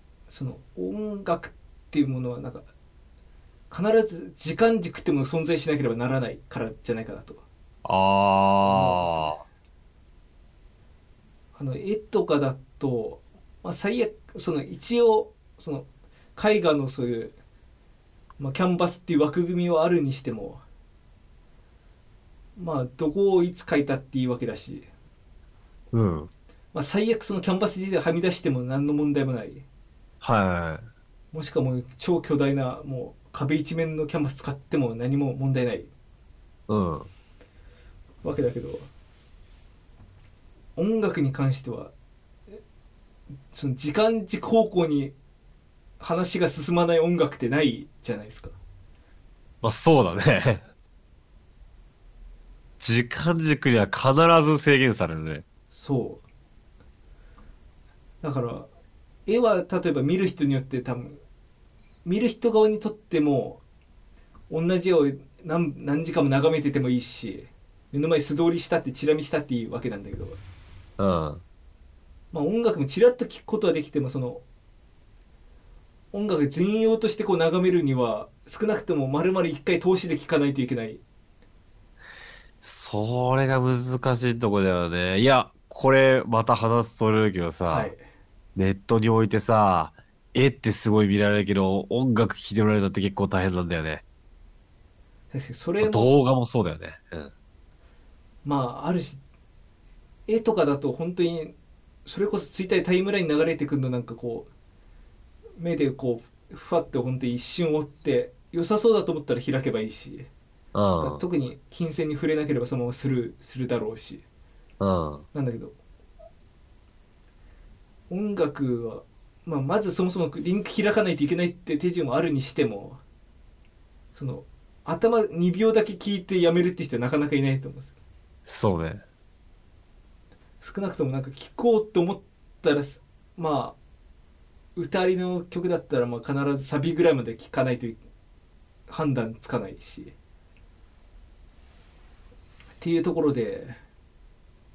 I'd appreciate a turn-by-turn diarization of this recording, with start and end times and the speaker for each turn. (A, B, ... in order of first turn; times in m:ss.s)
0:00.3-0:02.6 A
0:03.7-0:07.4 A
0:07.8-0:09.4 B
0:08.6-0:09.4 A
0:11.5-0:17.3 A
0:18.4-0:20.6 A
0:22.6-0:24.9 A
0:25.9-0:26.3 B
0:26.7-0:29.6 A
0:30.2-0:30.9 B
0:31.3-0:35.9 A
0:36.7-0:37.1 B
0:38.2-0:38.9 A
0:40.8-0:41.9 A
0:43.5-0:45.1 A
0:46.0-0:48.6 A
0:49.6-0:50.6 B
0:52.8-0:55.4 B
0:55.7-0:56.2 A
0:58.2-0:58.7 A
0:59.2-1:01.2 A
1:02.0-1:03.6 A
1:04.5-1:10.4 A
1:11.0-1:11.4 B
1:12.3-1:14.4 A
1:16.1-1:21.0 A
1:22.6-1:27.9 B
1:27.7-1:28.0 A
1:28.5-1:34.0 B
1:35.3-1:36.1 A
1:35.8-1:37.3 B
1:38.4-1:39.2 A
1:40.3-1:41.5 A
1:42.0-1:44.5 A
1:45.6-1:50.3 A
1:50.7-1:51.2 B
1:51.0-1:54.2 A
1:54.8-1:55.2 B
1:55.3-1:55.8 A
1:58.1-2:03.0 A
2:04.1-2:07.9 A
2:08.4-2:09.0 B
2:10.6-2:13.8 A
2:14.8-2:18.0 A
2:18.9-2:20.1 A
2:22.8-2:23.8 A